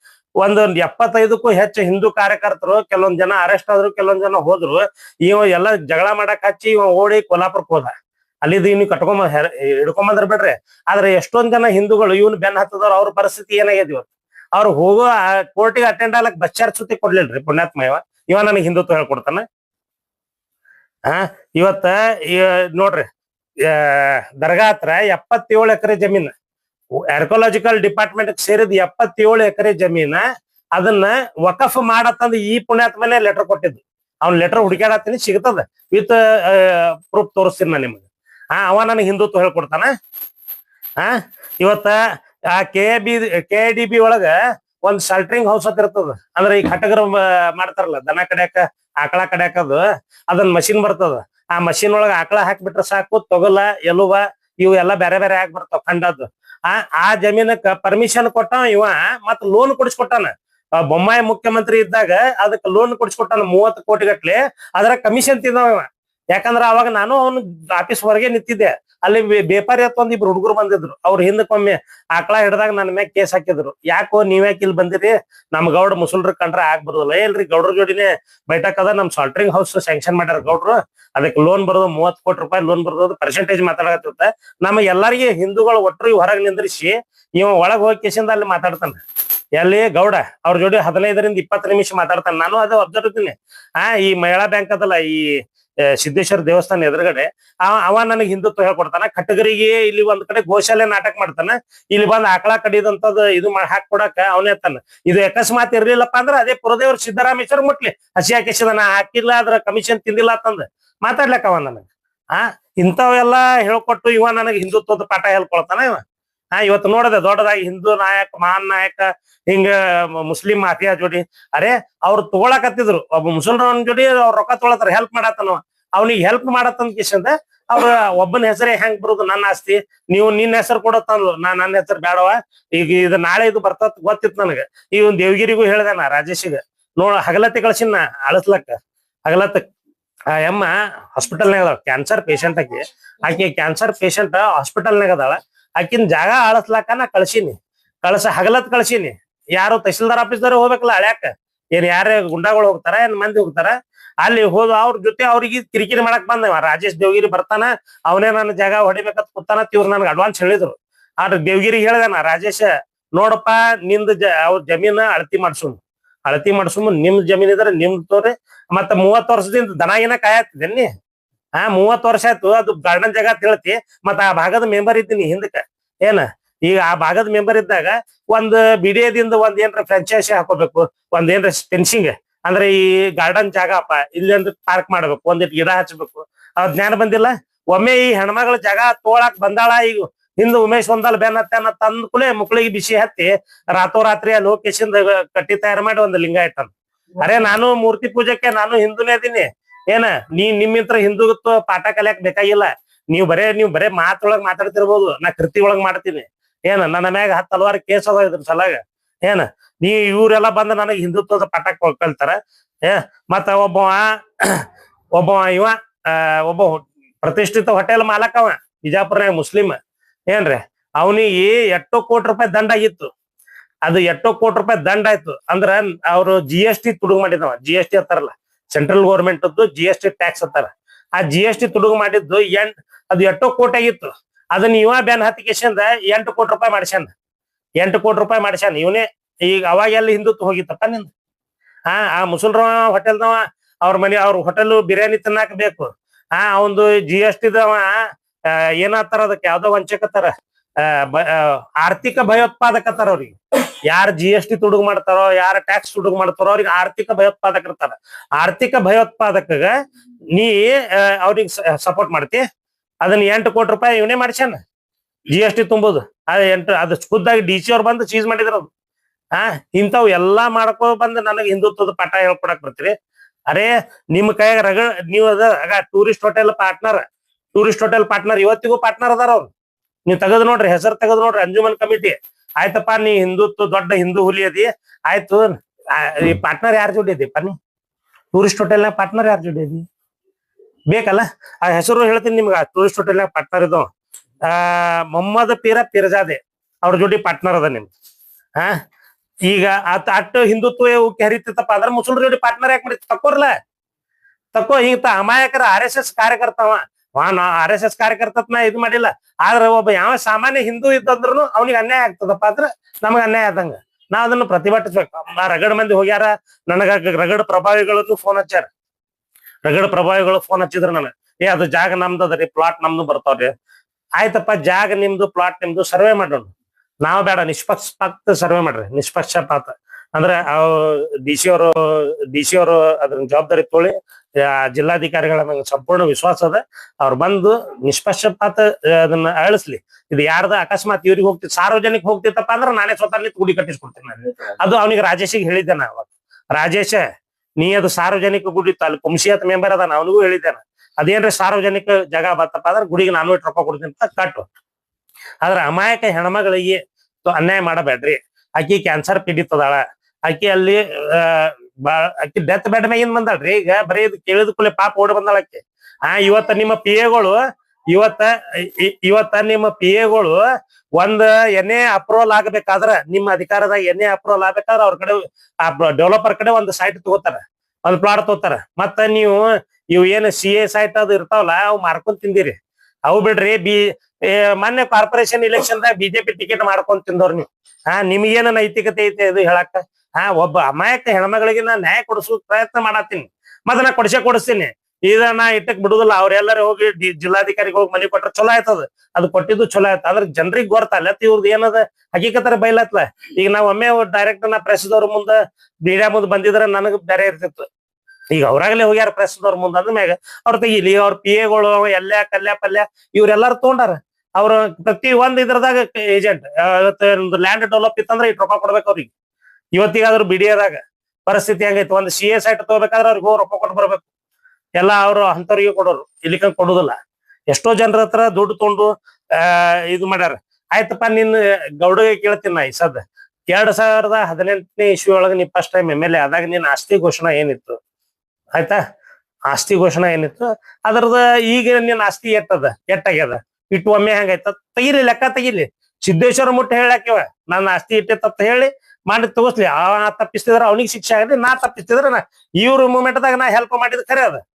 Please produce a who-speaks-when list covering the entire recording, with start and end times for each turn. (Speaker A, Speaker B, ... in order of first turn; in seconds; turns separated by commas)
Speaker A: 0.4-7.9, Speaker A: 8.4-19.4, Speaker A: 21.1-23.1, Speaker A: 23.6-26.3, Speaker A: 27.1-30.2, Speaker A: 30.8-39.9, Speaker A: 41.0-42.0, Speaker A: 42.5-89.0, Speaker A: 89.6-116.0, Speaker A: 116.5-139.6, Speaker A: 140.3-170.9, Speaker A: 171.6-214.6, Speaker A: 215.2-219.8, Speaker A: 220.3-223.1, Speaker A: 223.9-237.1, Speaker A: 237.8-241.1, Speaker A: 241.9-259.8, Speaker A: 260.3-262.4, Speaker A: 263.0-264.6, Speaker A: 265.3-268.7, Speaker A: 269.3-272.9, Speaker A: 273.5-277.0, Speaker A: 277.6-279.5, Speaker A: 280.1-287.6, Speaker A: 288.3-289.9, Speaker A: 290.9-293.9, Speaker A: 294.4-297.9, Speaker A: 299.5-303.6, Speaker A: 304.5-318.7, Speaker A: 319.6-323.5, Speaker A: 324.2-326.5, Speaker A: 327.0-347.0, Speaker A: 347.6-354.5, Speaker A: 355.4-370.4, Speaker A: 371.0-407.7, Speaker A: 408.3-419.1, Speaker A: 419.8-424.0, Speaker A: 424.8-427.0, Speaker A: 427.5-437.8, Speaker A: 439.5-454.4